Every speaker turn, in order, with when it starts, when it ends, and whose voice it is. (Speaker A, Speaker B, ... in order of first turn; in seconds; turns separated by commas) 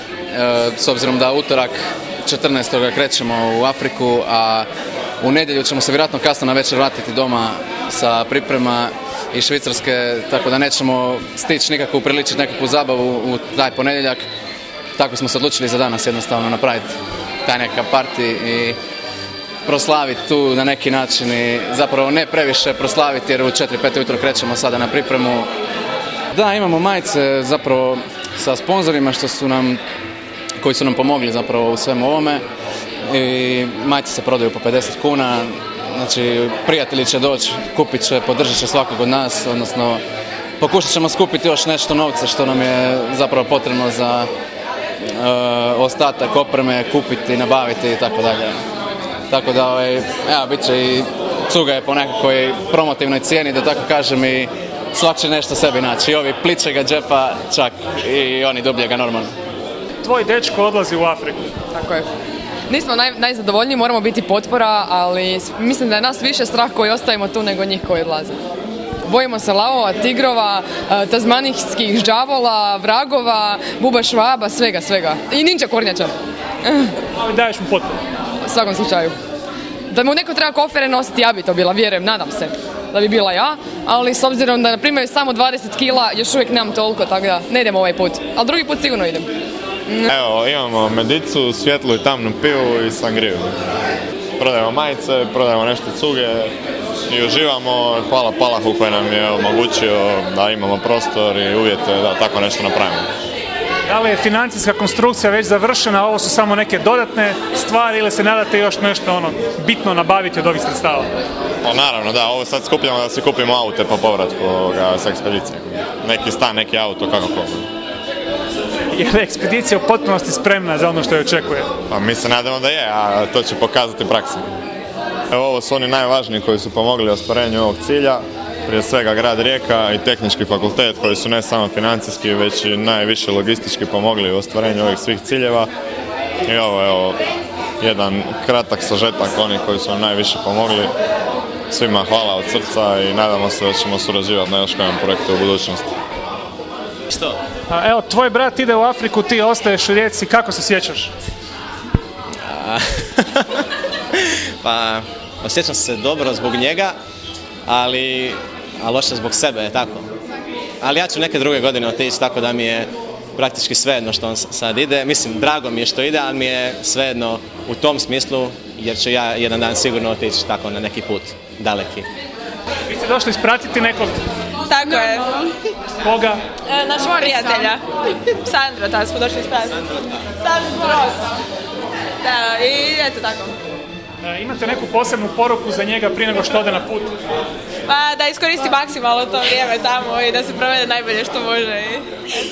Speaker A: 0.3-4.7, Speaker A: 5.2-14.2, Speaker A: 15.0-16.9, Speaker A: 17.4-18.8, Speaker A: 19.6-25.5, Speaker A: 26.3-29.8, Speaker A: 30.6-32.4, Speaker A: 33.1-40.0, Speaker A: 40.6-44.3, Speaker A: 45.1-48.6, Speaker A: 49.3-59.3, Speaker B: 60.0-61.5, Speaker C: 61.7-62.1, Speaker C: 62.7-68.4, Speaker C: 69.0-77.0, Speaker B: 77.2-77.9, Speaker C: 78.4-79.2, Speaker C: 79.9-89.3, Speaker D: 90.0-93.5, Speaker D: 94.4-96.5, Speaker D: 97.1-103.1, Speaker B: 103.9-111.1, Speaker D: 111.6-117.7, Speaker B: 118.9-121.7, Speaker D: 121.9-124.5, Speaker D: 125.3-135.7, Speaker D: 136.5-137.2, Speaker D: 137.8-140.9, Speaker D: 141.7-145.9, Speaker B: 147.7-151.1, Speaker E: 154.6-156.9, Speaker E: 157.7-158.3, Speaker E: 158.8-160.0, Speaker E: 160.8-162.8, Speaker E: 163.4-172.0, Speaker B: 172.9-174.2, Speaker F: 174.7-175.3, Speaker B: 176.0-176.4, Speaker F: 176.7-179.9, Speaker C: 177.3-177.7, Speaker F: 180.4-181.2, Speaker F: 182.2-183.6, Speaker B: 184.2-187.1, Speaker F: 187.9-192.1